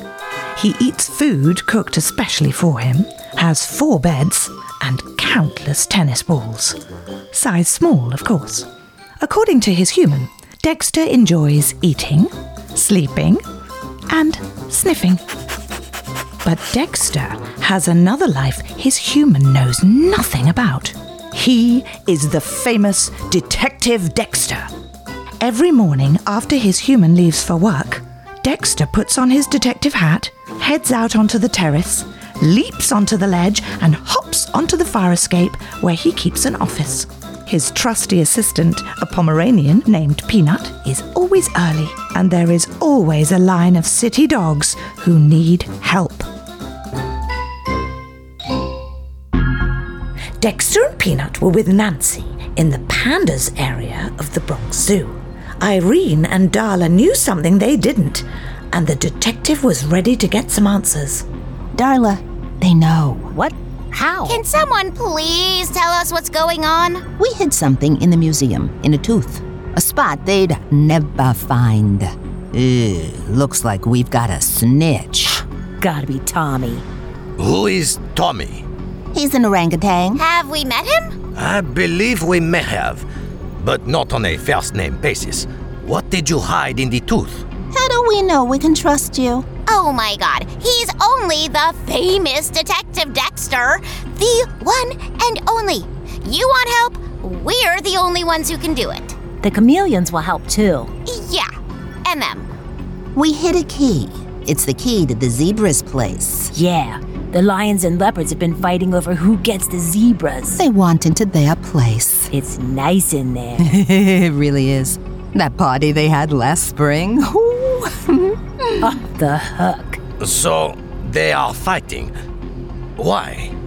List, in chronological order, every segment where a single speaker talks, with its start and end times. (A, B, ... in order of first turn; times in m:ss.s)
0:00.5-0:06.8 A
0:07.3-0:08.7 A
0:09.2-0:13.4 A
0:14.1-0:15.2 A
0:16.4-0:24.7 A
0:25.4-0:46.3 A
0:50.4-1:01.2 A
1:01.7-1:03.3 B
1:03.3-1:04.4 C
1:04.2-1:07.1 D
1:07.2-1:15.4 B
1:15.8-1:16.8 C
1:17.4-1:18.6 E
1:19.1-1:20.2 B
1:20.1-1:21.1 D
1:21.3-1:23.0 E
1:23.6-1:27.4 E
1:27.7-1:29.5 B
1:29.6-1:39.2 D
1:39.4-1:40.9 C
1:41.0-1:41.5 D
1:42.0-1:42.5 D
1:43.1-1:46.5 B
1:46.5-1:50.6 C
1:50.5-1:52.3 B
1:52.3-1:53.7 C
1:53.6-1:59.0 B
1:58.8-2:00.0 C
2:00.2-2:02.1 E
2:03.0-2:03.5 E